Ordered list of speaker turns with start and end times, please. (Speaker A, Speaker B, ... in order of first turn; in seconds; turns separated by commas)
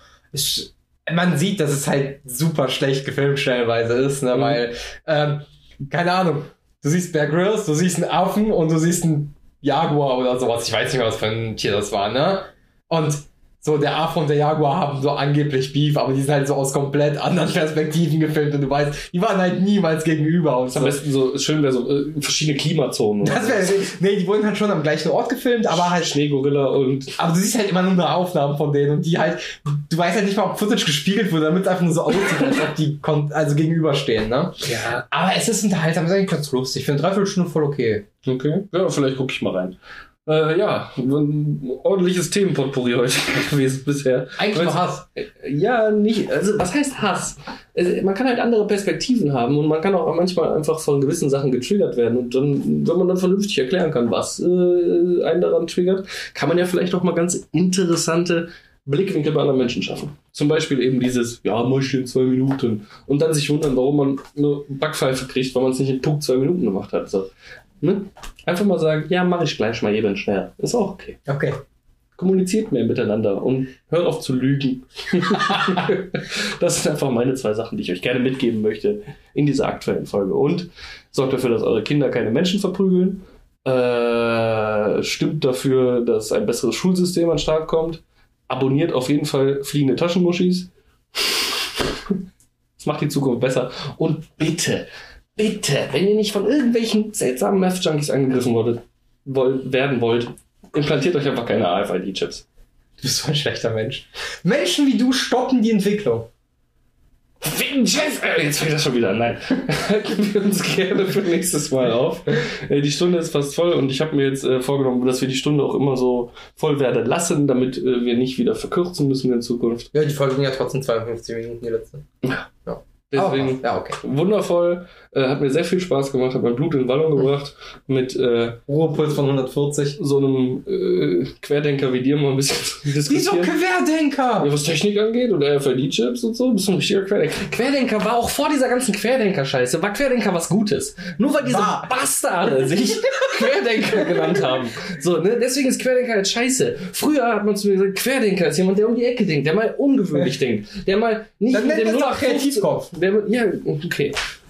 Speaker A: 0.3-21.0, Speaker B: 4.3-4.6, Speaker B: 20.7-23.7, Speaker A: 23.2-26.2, Speaker B: 25.7-27.2, Speaker A: 27.2-38.1, Speaker B: 34.6-35.0, Speaker B: 38.2-67.3, Speaker A: 44.4-45.0, Speaker B: 67.8-71.2, Speaker A: 71.3-71.6, Speaker B: 72.2-91.7, Speaker B: 92.8-102.5, Speaker A: 103.0-106.3, Speaker B: 107.4-119.9, Speaker A: 119.9-122.0, Speaker B: 122.2-122.5, Speaker A: 122.7-124.0, Speaker B: 123.1-128.6, Speaker A: 128.7-130.0, Speaker B: 130.0-133.6, Speaker A: 133.1-134.5, Speaker B: 134.4-154.2, Speaker A: 141.4-141.9, Speaker A: 144.0-144.3, Speaker A: 151.5-152.9